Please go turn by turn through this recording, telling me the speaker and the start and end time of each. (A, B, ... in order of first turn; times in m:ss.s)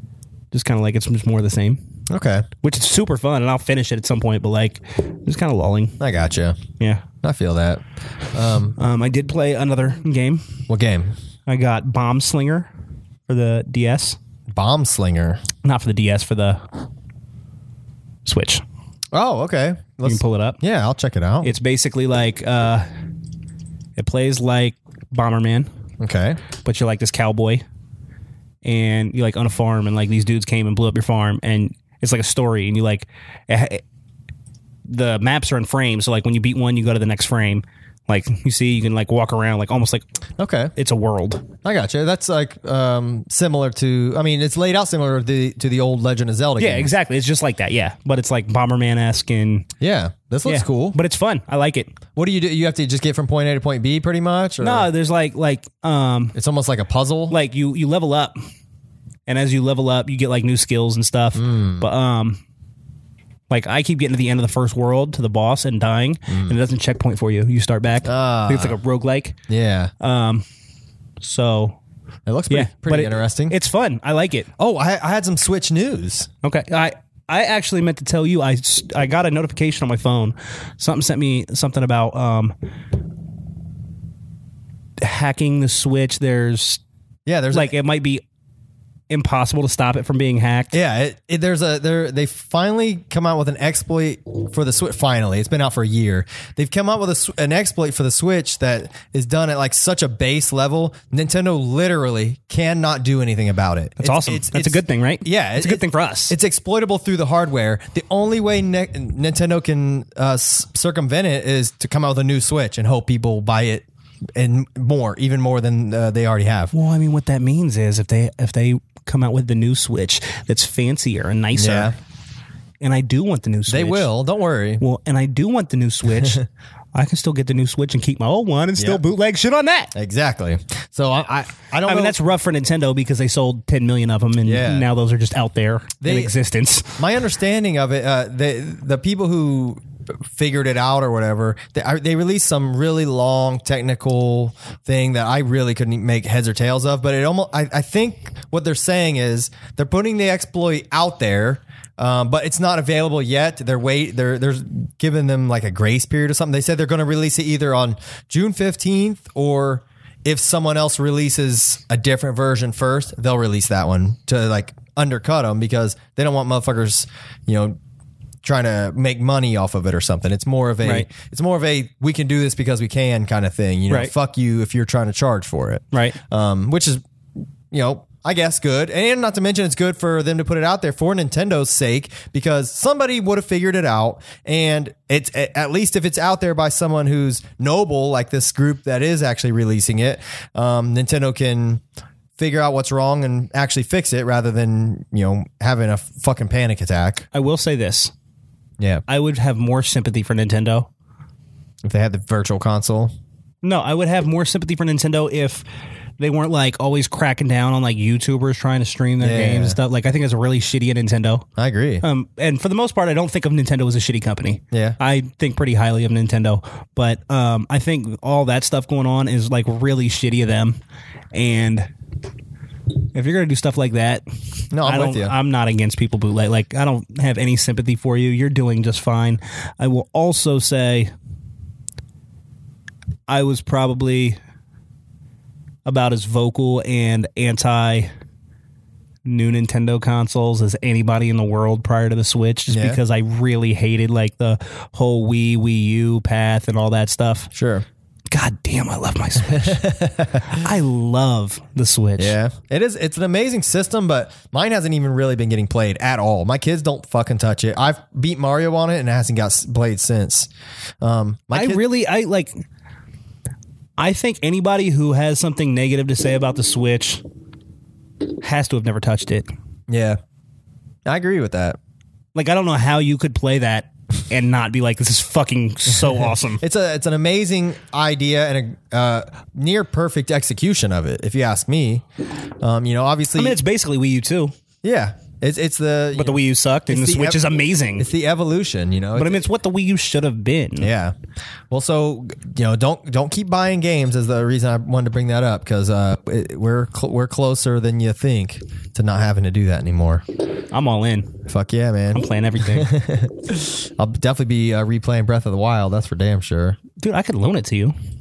0:00.5-0:01.8 A
0:02.1-0:02.5 B
0:02.6-0:06.0 A
0:06.0-0:06.6 B
0:07.2-0:08.8 B
0:08.8-0:10.5 A
0:10.7-0:11.1 B
0:11.5-0:12.7 A
0:13.3-0:14.2 A
0:14.5-0:15.4 B
0:15.6-0:16.6 A
0:18.2-0:18.6 A
0:19.1-0:21.5 B
0:20.0-0:20.6 A
0:21.4-0:22.8 A
0:24.0-0:25.7 A
0:26.0-0:26.4 B
0:26.6-0:27.6 A
0:28.6-0:33.8 A
0:34.8-0:40.0 A
0:40.4-0:40.7 B
0:40.8-0:41.5 A
0:41.6-0:46.9 B
0:46.6-0:49.7 A
0:49.8-0:51.0 B
0:50.4-0:51.9 A
0:52.2-0:54.9 B
0:54.6-0:56.3 A
0:56.3-0:57.3 B
0:57.3-0:58.4 A
0:59.3-1:02.4 A
1:01.4-1:01.9 B
1:03.5-1:09.4 A
1:06.3-1:06.6 B
1:08.0-1:08.8 B
1:09.5-1:09.9 B
1:10.0-1:10.4 A
1:11.2-1:11.8 A
1:12.2-1:13.5 B
1:12.5-1:14.5 A
1:14.6-1:16.3 B
1:16.4-1:22.5 A
1:25.0-1:26.8 A
1:27.2-1:27.7 B
1:27.5-1:28.2 A
1:29.1-1:30.8 A
1:30.7-1:56.7 B
1:44.0-1:46.3 A
1:56.7-2:01.9 A
2:01.5-2:01.9 B
2:02.8-2:04.1 A
2:03.7-2:04.8 B
2:04.8-2:06.4 A
2:06.2-2:06.5 B
2:06.9-2:09.9 A
2:08.8-2:09.0 B
2:10.0-2:12.2 B
2:11.8-2:17.0 A
2:14.4-2:14.9 B
2:16.0-2:16.3 B
2:17.0-2:47.8 B
2:48.4-2:57.0 B
2:50.8-2:51.1 A
2:55.9-2:56.2 A
2:57.7-3:11.8 B
3:12.4-3:17.2 B
3:17.3-3:18.1 A
3:19.1-3:20.9 A
3:21.8-3:23.1 B
3:23.6-3:25.6 A
3:26.2-3:31.5 A
3:29.2-3:29.8 B
3:31.6-3:32.0 B
3:32.0-3:40.8 A
3:34.7-3:35.0 B
3:41.3-3:41.9 A
3:43.1-3:44.2 A
3:44.7-3:45.3 B
3:44.8-3:51.1 A
3:53.3-3:54.4 A
3:55.8-3:58.1 A
3:59.2-4:07.5 A
4:02.7-4:03.0 B
4:07.5-4:07.8 B
4:08.3-4:09.8 A
4:09.5-4:10.6 B
4:10.5-4:12.4 A
4:12.2-4:20.5 B
4:21.0-4:21.8 B
4:21.5-4:22.5 A
4:24.0-4:27.2 A
4:28.4-4:29.5 A
4:29.9-4:30.2 B
4:31.0-4:31.8 B
4:32.3-4:36.6 A
4:36.6-4:42.0 B
4:42.6-4:43.6 B
4:43.3-4:44.5 A
4:44.8-4:47.4 B
4:46.1-4:48.1 A
4:48.0-4:49.4 B
4:49.1-4:50.9 A
4:50.8-4:51.1 B
4:51.7-5:00.2 B
5:00.7-5:01.4 A
5:01.5-5:06.8 B
5:02.1-5:02.9 A
5:07.0-5:07.9 A